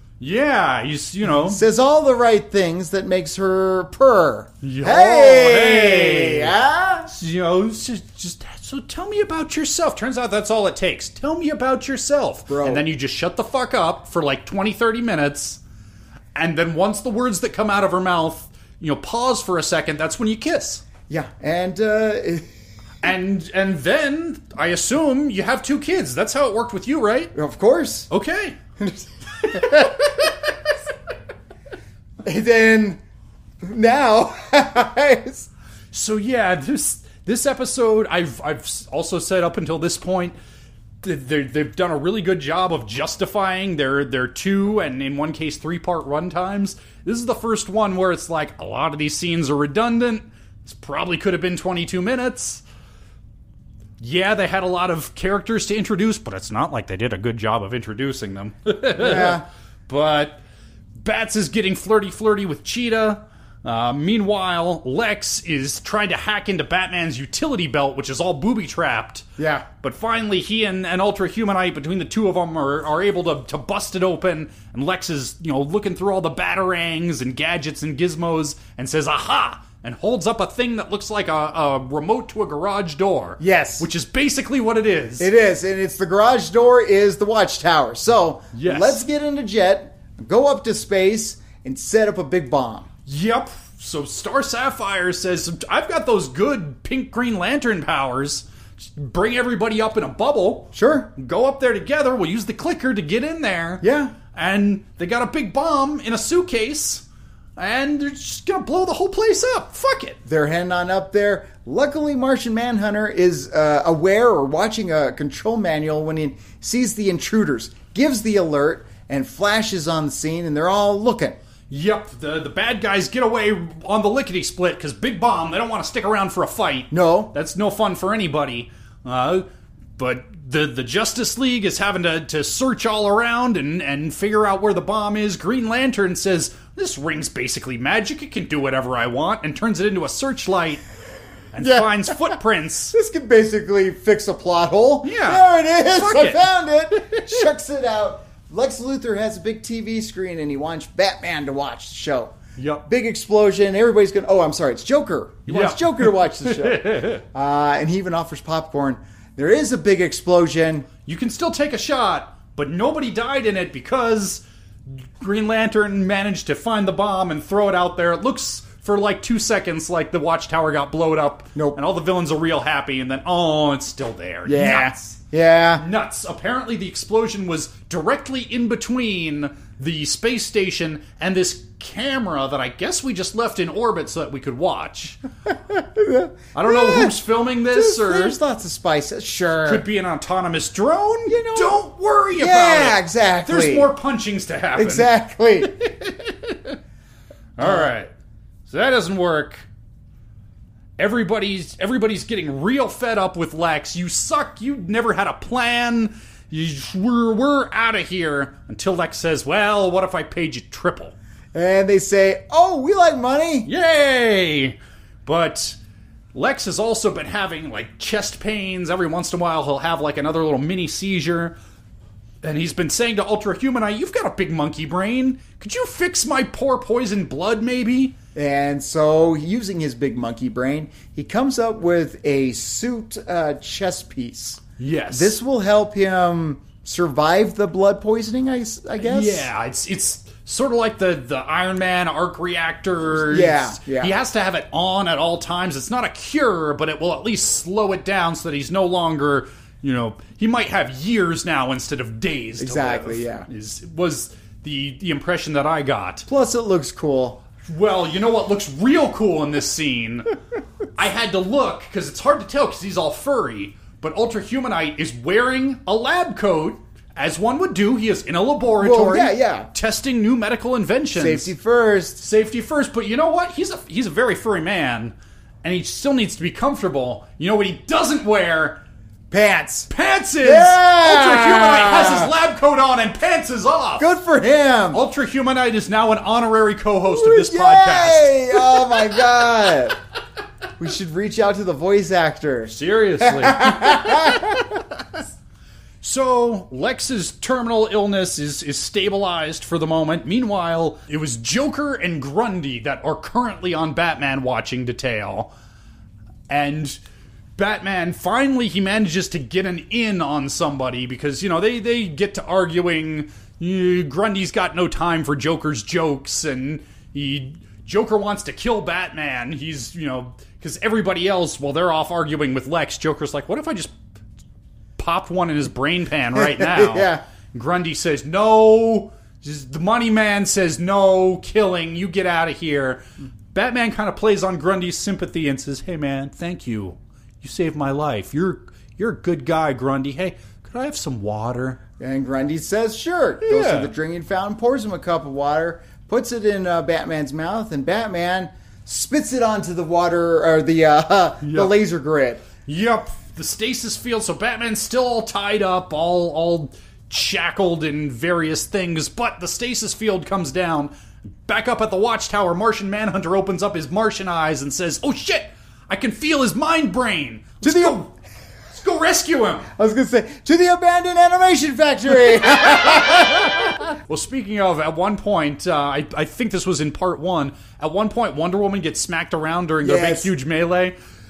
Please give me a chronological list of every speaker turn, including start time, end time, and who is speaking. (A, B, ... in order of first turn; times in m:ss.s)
0:00.2-0:01.6 A
0:01.2-0:07.1 B
0:04.6-0:06.6 A
0:07.1-0:15.6 A
0:12.5-0:12.9 B
0:16.4-0:20.8 A
0:21.1-0:22.5 B
0:23.0-0:27.3 A
0:27.3-0:28.1 B
0:28.1-0:28.6 A
0:28.8-0:30.0 B
0:29.5-0:30.3 A
0:32.2-0:33.0 B
0:33.6-0:35.5 B
0:35.9-0:40.4 A
0:41.0-0:52.6 A
0:54.0-1:00.4 A
0:59.0-0:59.4 B
1:01.0-1:25.3 A
1:09.4-1:09.7 B
1:23.4-1:23.9 B
1:25.2-1:32.9 B
1:28.5-1:29.0 A
1:33.1-1:47.0 A
1:40.7-1:41.1 B
1:43.8-1:44.2 B
1:47.6-1:50.2 A
1:50.3-2:01.4 B
2:01.7-2:20.8 A
2:06.9-2:07.3 B
2:21.5-2:23.0 A
2:21.6-2:22.4 B
2:22.9-2:40.9 B
2:25.0-2:26.5 A
2:32.6-2:32.9 A
2:35.5-2:37.2 A
2:41.1-2:44.4 A
2:45.0-2:55.2 A
2:54.5-2:55.8 B
2:55.8-3:05.2 A
3:05.5-3:09.8 B
3:06.5-3:08.4 A
3:09.6-3:15.1 A
3:11.3-3:13.9 B
3:14.8-3:15.7 B
3:15.6-3:16.8 A
3:17.6-3:18.1 A
3:17.6-3:17.9 B
3:18.7-3:19.7 A
3:21.0-3:31.2 A
3:31.5-3:33.7 B
3:33.6-3:35.8 A
3:36.3-3:41.6 A
3:42.4-3:48.2 A
3:48.4-3:59.5 B
3:54.8-3:55.4 A
3:59.0-4:16.3 A
4:03.1-4:04.1 B
4:12.6-4:13.5 B
4:16.3-4:17.4 B
4:17.6-4:20.3 A
4:21.0-4:31.5 A
4:28.8-4:29.7 B
4:31.1-4:32.2 B
4:32.2-4:38.8 A
4:39.3-4:39.9 B
4:39.9-4:44.1 A
4:40.4-4:42.3 B
4:44.0-4:45.0 B
4:44.9-4:48.9 A
4:47.1-4:50.0 B
4:50.8-4:54.6 B
4:52.7-4:54.6 A
4:56.0-5:05.5 A
5:06.5-5:07.0 A
5:07.6-5:23.9 A
5:25.0-5:41.8 A
5:26.4-5:27.2 B
5:42.0-5:52.5 B
5:43.4-5:43.9 A
5:51.4-5:51.7 A
5:52.7-6:00.9 A
6:01.4-6:08.1 A
6:07.6-6:08.1 B
6:08.7-6:09.7 A
6:09.8-6:13.8 B
6:12.6-6:21.0 A
6:19.8-6:20.3 B